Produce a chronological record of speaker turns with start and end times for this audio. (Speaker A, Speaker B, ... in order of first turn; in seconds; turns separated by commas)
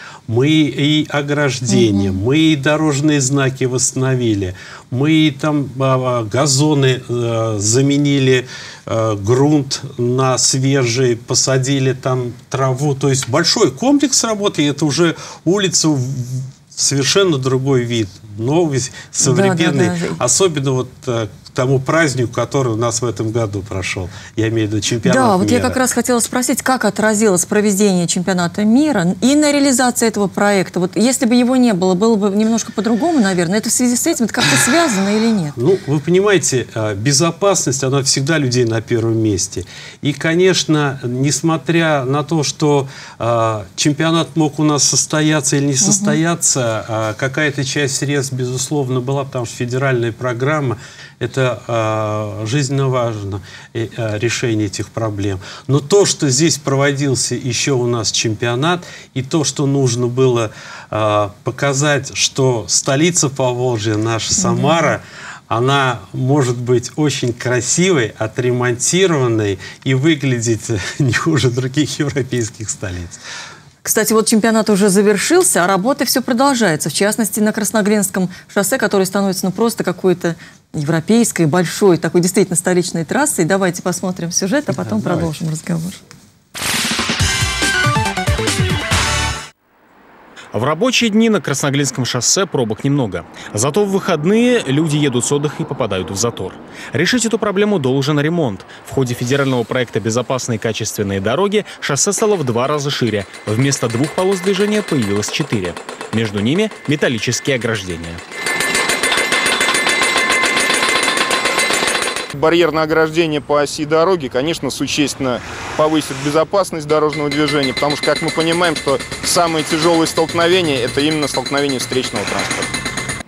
Speaker A: 0.3-25.8, Speaker B: 1.7-2.2, Speaker B: 19.2-20.2, Speaker B: 25.0-35.5, Speaker A: 35.5-73.2, Speaker B: 45.8-46.2, Speaker B: 64.4-64.8, Speaker B: 73.8-86.0, Speaker A: 84.7-85.3, Speaker C: 90.5-108.2, Speaker D: 112.3-122.7